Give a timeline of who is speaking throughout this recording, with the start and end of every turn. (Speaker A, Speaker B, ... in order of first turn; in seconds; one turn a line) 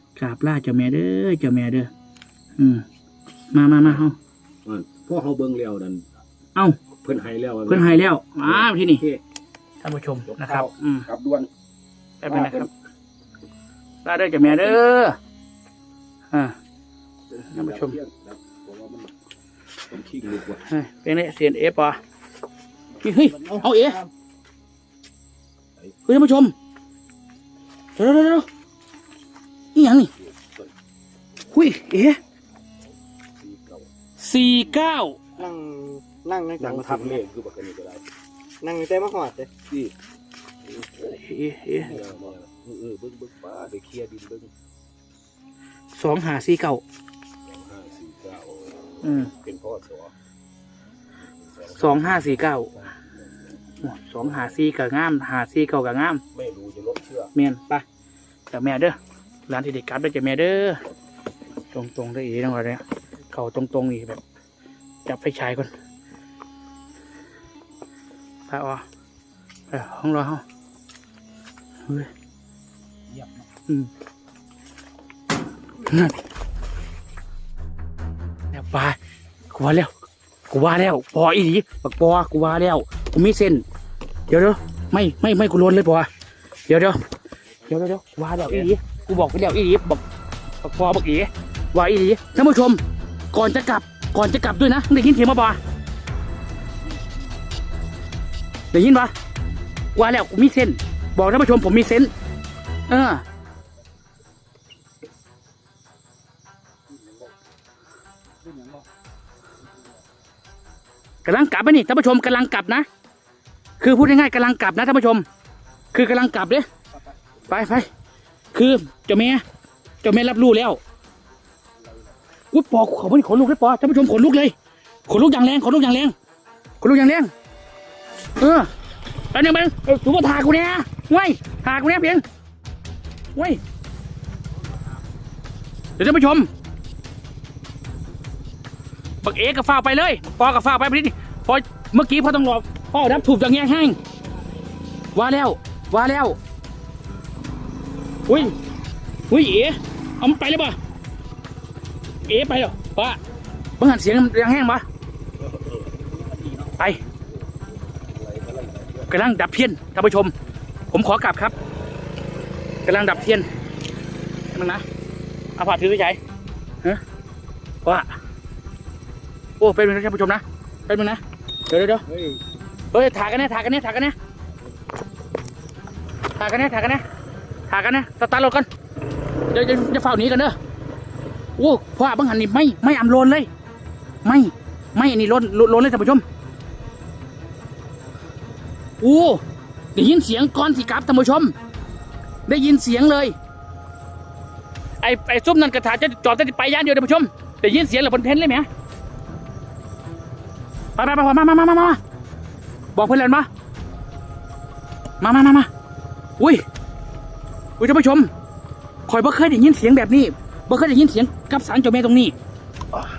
Speaker A: 0.1-1.9
Speaker A: 2.6-2.9
Speaker A: 3.5-4.2
Speaker B: 4.6-6.1
Speaker B: 7.0-9.2
Speaker A: 7.7-9.0
Speaker A: 9.8-11.1
Speaker B: 10.2-11.5
Speaker A: 12.2-12.7
Speaker B: 12.2-12.7
Speaker A: 14.0-15.2
Speaker B: 14.4-14.8
Speaker B: 17.4-19.1
Speaker A: 17.5-18.0
Speaker B: 19.9-20.7
Speaker A: 20.7-22.0
Speaker A: 23.0-24.0
Speaker C: 23.3-24.1
Speaker A: 26.1-26.5
Speaker A: 28.0-28.5
Speaker A: 29.7-30.1
Speaker B: 30.1-30.7
Speaker A: 31.5-32.2
Speaker B: 33.3-33.9
Speaker A: 34.2-35.3
Speaker C: 35.4-37.2
Speaker B: 36.6-38.0
Speaker C: 38.6-39.5
Speaker B: 39.6-39.9
Speaker A: 41.0-41.9
Speaker B: 41.8-44.5
Speaker C: 41.9-42.2
Speaker A: 45.9-46.8
Speaker B: 47.4-50.1
Speaker A: 49.0-49.3
Speaker B: 51.2-53.6
Speaker A: 51.7-52.9
Speaker A: 53.8-56.2
Speaker B: 54.1-54.6
Speaker B: 56.3-57.3
Speaker A: 57.3-57.8
Speaker A: 58.5-60.8
Speaker A: 61.7-64.2
Speaker A: 65.0-65.7
Speaker A: 68.5-68.8
Speaker A: 69.7-70.4
Speaker A: 75.8-76.2
Speaker A: 78.5-79.0
Speaker A: 79.5-79.9
Speaker A: 80.5-83.6
Speaker A: 84.3-86.1
Speaker A: 86.7-87.0
Speaker A: 87.7-90.0
Speaker B: 88.4-88.7
Speaker A: 90.6-92.8
Speaker A: 93.3-95.6
Speaker A: 98.7-99.1
Speaker A: 100.0-102.1
Speaker A: 102.9-103.2
Speaker C: 108.4-108.8
Speaker A: 111.2-112.9
Speaker A: 113.8-115.2
Speaker A: 115.9-116.7
Speaker A: 117.5-117.9
Speaker A: 118.5-119.4
Speaker A: 120.0-120.8
Speaker C: 121.8-122.1
Speaker A: 122.5-124.5
Speaker A: 125.1-126.1
Speaker A: 126.8-127.3
Speaker A: 128.4-128.7
Speaker A: 129.3-132.2
Speaker A: 133.3-133.6
Speaker A: 136.0-136.5
Speaker A: 139.2-144.0
Speaker A: 145.1-146.4
Speaker A: 148.3-148.6
Speaker A: 149.3-150.8
Speaker A: 152.3-153.2
Speaker A: 153.8-154.8
Speaker B: 155.4-155.9
Speaker C: 155.9-157.3
Speaker B: 157.5-159.1
Speaker A: 159.1-160.3
Speaker A: 160.9-161.5
Speaker A: 162.8-163.5
Speaker A: 164.5-164.8
Speaker A: 165.6-166.2
Speaker A: 167.8-168.1
Speaker A: 169.6-172.0
Speaker A: 172.9-174.2
Speaker A: 176.4-177.0
Speaker A: 177.7-178.7
Speaker A: 179.5-180.6
Speaker A: 181.6-183.5
Speaker A: 184.2-186.2
Speaker A: 189.0-189.4
Speaker A: 189.9-191.5
Speaker A: 192.4-193.3
Speaker A: 195.0-198.7
Speaker A: 201.0-202.0
Speaker A: 202.9-203.5
Speaker A: 205.2-205.7
Speaker A: 206.4-206.6
Speaker A: 207.8-208.3
Speaker A: 209.1-212.3